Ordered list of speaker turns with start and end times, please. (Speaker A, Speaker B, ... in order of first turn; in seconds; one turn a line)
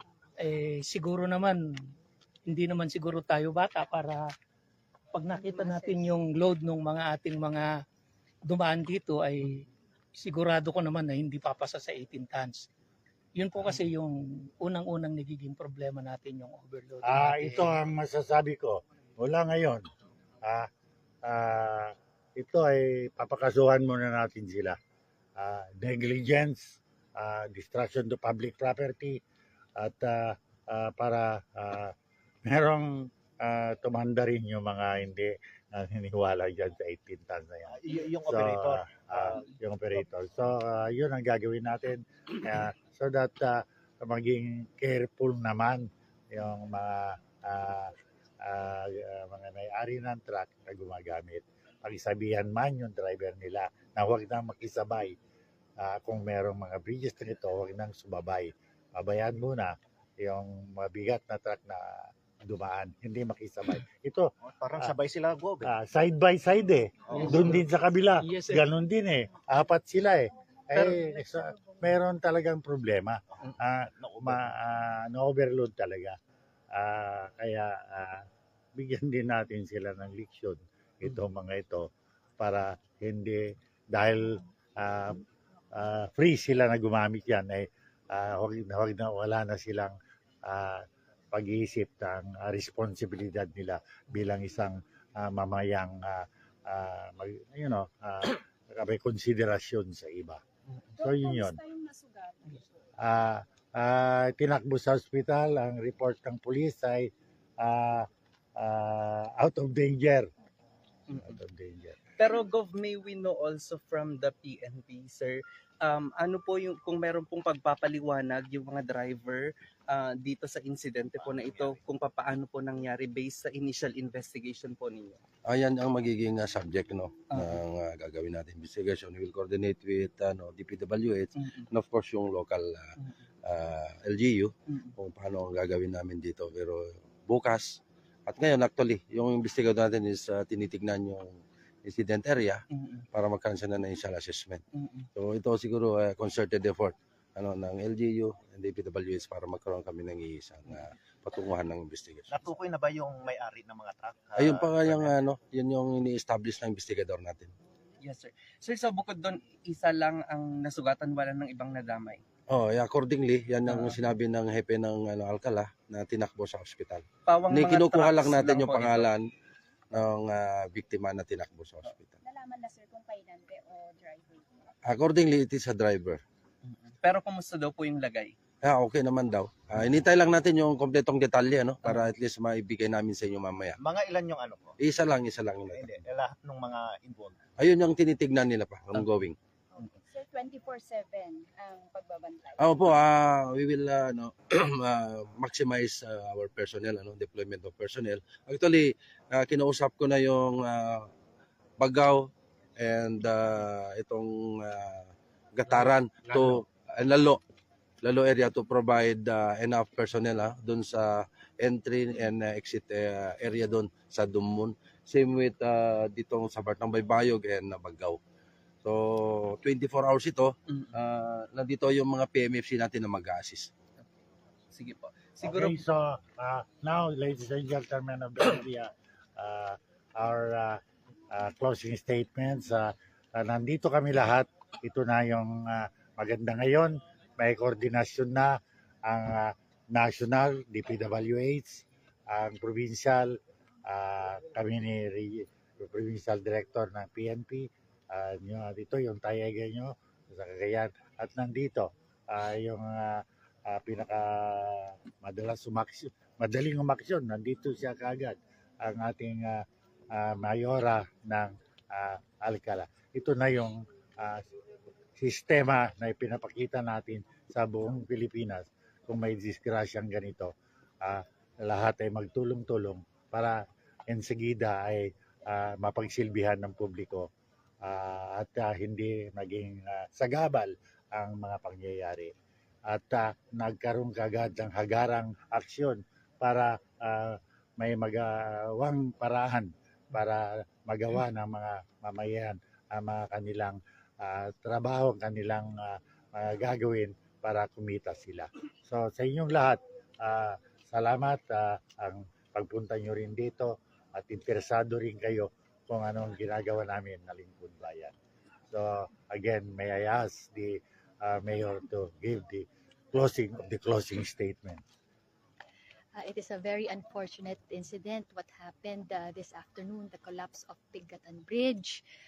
Speaker A: 0.4-1.9
Speaker A: 2.5-4.3
Speaker A: 5.1-7.8
Speaker A: 8.4-12.7
Speaker A: 13.3-17.7
Speaker B: 17.1-19.8
Speaker B: 21.2-24.8
Speaker B: 25.4-29.1
Speaker B: 29.8-31.9
Speaker B: 32.5-47.9
Speaker C: 37.7-39.5
Speaker B: 48.4-55.1
Speaker B: 55.8-64.3
Speaker C: 64.5-65.7
Speaker B: 65.6-76.2
Speaker C: 67.1-67.5
Speaker A: 68.2-68.6
Speaker C: 73.9-74.5
Speaker B: 76.7-81.9
Speaker B: 82.4-85.2
Speaker B: 85.7-89.9
Speaker B: 90.5-100.4
Speaker B: 101.0-101.6
Speaker D: 101.0-102.5
Speaker B: 103.0-107.1
Speaker B: 107.6-110.3
Speaker E: 111.1-111.3
Speaker B: 111.1-112.0
Speaker E: 112.2-125.2
Speaker F: 125.4-144.6
Speaker E: 127.3-127.6
Speaker E: 142.7-143.0
Speaker E: 144.8-145.1
Speaker F: 145.1-152.4
Speaker C: 152.3-155.2
Speaker F: 154.4-157.5
Speaker E: 158.0-162.2
Speaker F: 162.5-169.3
Speaker E: 163.7-164.0
Speaker E: 167.2-169.1
Speaker F: 169.9-172.1
Speaker D: 172.2-174.6
Speaker F: 174.8-176.2
Speaker E: 176.7-178.3
Speaker F: 178.6-183.8
Speaker C: 183.8-184.8
Speaker F: 184.8-185.9
Speaker C: 185.7-187.4
Speaker F: 187.6-189.4
Speaker D: 189.8-192.6
Speaker F: 192.6-201.1
Speaker F: 201.8-207.4
Speaker F: 208.0-218.2
Speaker F: 218.8-223.7
Speaker E: 224.7-225.8
Speaker B: 225.4-230.8
Speaker B: 231.3-238.5
Speaker B: 239.1-243.3
Speaker B: 243.9-264.4
Speaker B: 265.2-270.5
Speaker B: 271.0-273.6
Speaker B: 274.1-277.3
Speaker B: 277.8-282.3
Speaker B: 282.9-308.1
Speaker B: 308.7-314.8
Speaker G: 316.1-322.0